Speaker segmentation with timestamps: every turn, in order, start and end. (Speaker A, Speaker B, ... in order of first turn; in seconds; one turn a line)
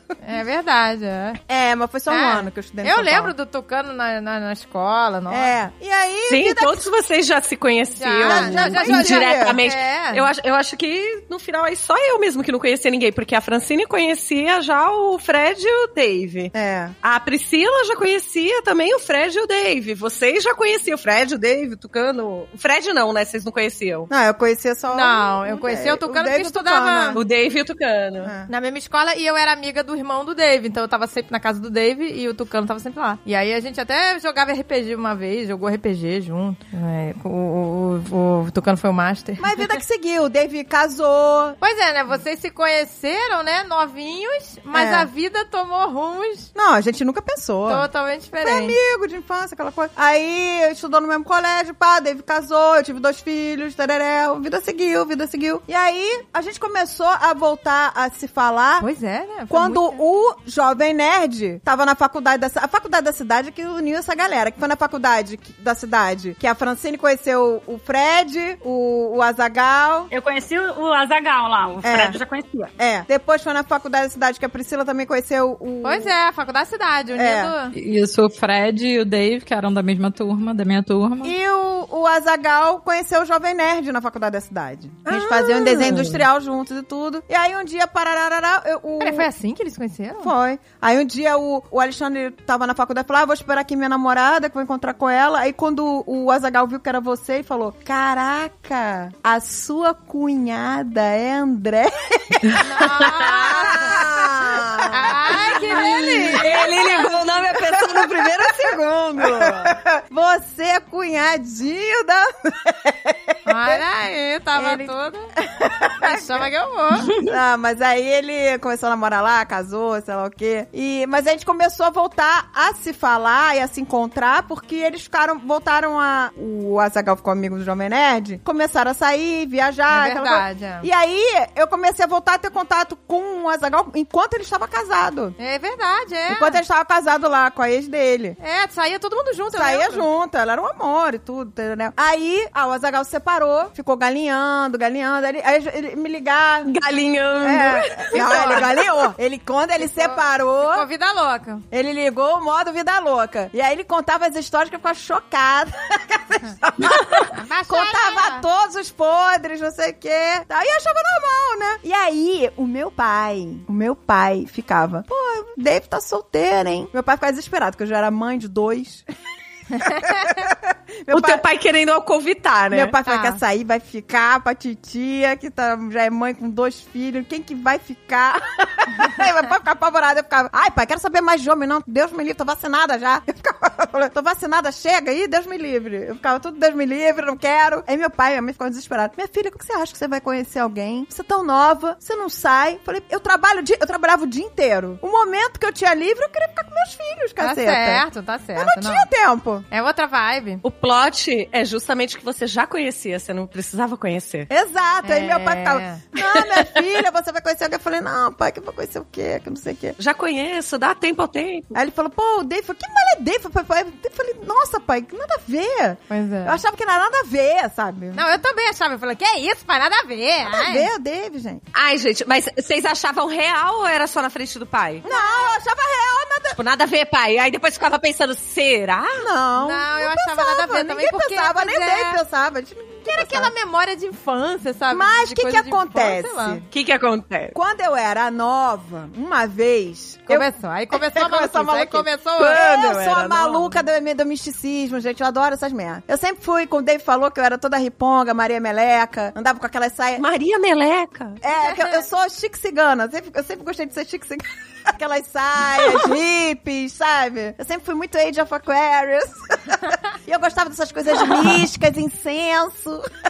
Speaker A: 0.2-1.4
Speaker B: 1.5-3.3
Speaker A: 2.1-5.5
Speaker B: 5.3-6.9
Speaker C: 6.3-16.5
Speaker A: 8.0-10.3
Speaker B: 8.2-9.6
Speaker B: 16.5-16.9
Speaker C: 17.0-24.1
Speaker B: 24.1-27.2
Speaker A: 24.9-27.2
Speaker C: 27.1-28.3
Speaker B: 28.2-28.5
Speaker A: 28.5-39.8
Speaker B: 39.4-41.6
Speaker A: 41.6-46.5
Speaker B: 44.7-45.1
Speaker B: 46.5-47.9
Speaker A: 47.7-48.8
Speaker B: 48.4-58.9
Speaker A: 58.8-60.0
Speaker B: 59.5-70.1
Speaker D: 70.1-72.7
Speaker B: 71.8-72.2
Speaker B: 72.8-76.1
Speaker A: 75.8-77.7
Speaker B: 77.1-77.5
Speaker E: 77.7-81.3
Speaker B: 81.2-89.3
Speaker C: 85.1-86.2
Speaker A: 89.0-90.3
Speaker B: 90.2-113.8
Speaker A: 102.6-104.0
Speaker A: 104.9-107.1
Speaker C: 105.8-109.8
Speaker A: 113.5-115.3
Speaker B: 114.5-116.4
Speaker A: 116.0-117.1
Speaker B: 117.1-135.3
Speaker A: 129.9-130.9
Speaker A: 135.4-136.6
Speaker B: 136.3-138.4
Speaker A: 138.4-140.1
Speaker B: 139.5-146.7
Speaker C: 146.6-148.8
Speaker B: 147.4-150.8
Speaker A: 149.8-151.6
Speaker B: 151.7-169.0
Speaker A: 157.3-158.4
Speaker B: 169.8-171.4
Speaker A: 169.8-170.1
Speaker C: 171.1-172.9
Speaker B: 172.7-199.7
Speaker A: 173.1-173.4
Speaker A: 197.4-199.1
Speaker A: 199.7-200.6
Speaker C: 200.6-204.5
Speaker B: 204.5-209.9
Speaker A: 205.0-206.0
Speaker C: 210.0-211.8
Speaker B: 211.7-218.2
Speaker A: 216.1-216.6
Speaker A: 218.1-220.9
Speaker B: 220.4-221.6
Speaker C: 221.7-225.1
Speaker B: 225.0-226.6
Speaker A: 225.1-225.4
Speaker C: 226.5-229.3
Speaker B: 229.2-233.5
Speaker A: 229.6-232.2
Speaker A: 233.1-236.6
Speaker B: 234.9-236.7
Speaker C: 236.7-237.5
Speaker B: 237.5-250.2
Speaker A: 240.3-242.6
Speaker C: 242.4-243.8
Speaker C: 250.2-251.4
Speaker B: 251.4-263.1
Speaker A: 251.6-251.9